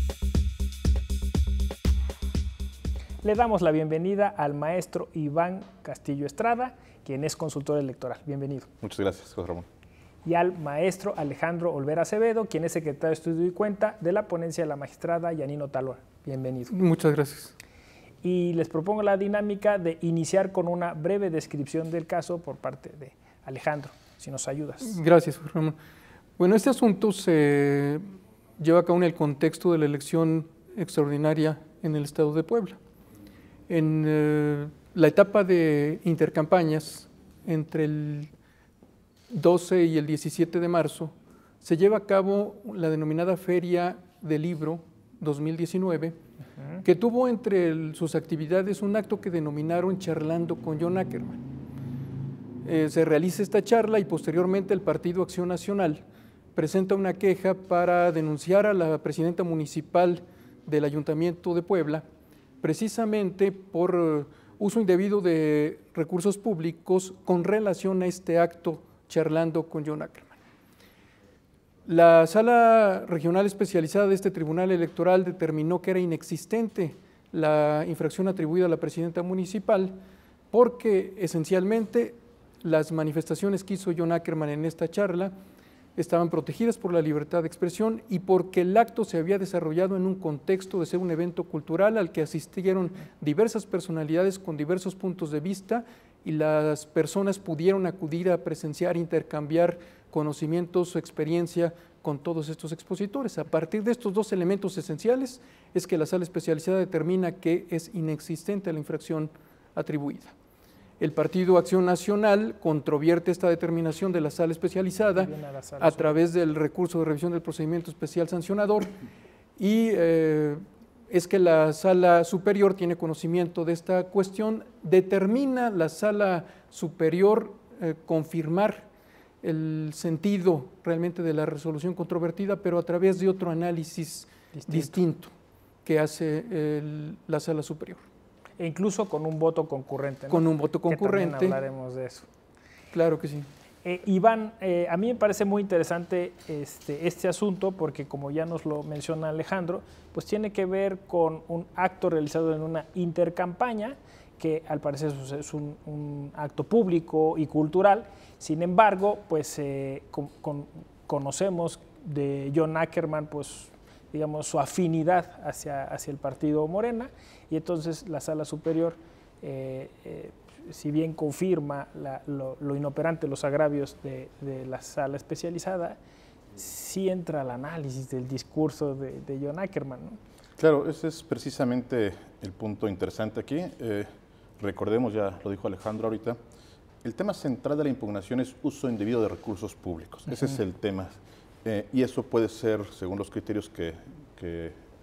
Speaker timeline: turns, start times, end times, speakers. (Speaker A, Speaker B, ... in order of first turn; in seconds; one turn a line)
Speaker A: 3.2-8.7
Speaker B: 8.8-9.7
Speaker A: 10.2-16.7
Speaker C: 16.7-17.5
Speaker A: 18.2-25.0
Speaker C: 24.8-25.8
Speaker C: 26.4-28.0
Speaker C: 28.6-32.8
Speaker C: 33.7-38.3
Speaker C: 39.3-46.1
Speaker C: 46.8-51.4
Speaker C: 52.6-56.0
Speaker C: 56.5-62.0
Speaker C: 62.6-70.4
Speaker C: 71.8-80.0
Speaker C: 80.5-85.3
Speaker C: 86.0-110.3
Speaker C: 111.0-118.9
Speaker A: 115.2-116.2
Speaker C: 119.6-128.9
Speaker C: 129.4-135.3
Speaker A: 134.5-135.0
Speaker C: 135.8-138.0
Speaker A: 138.6-142.2
Speaker C: 140.3-141.6
Speaker C: 142.9-143.5
Speaker A: 143.8-176.0
Speaker A: 176.6-180.2
Speaker B: 180.6-184.1
Speaker B: 184.6-186.4
Speaker B: 187.0-194.8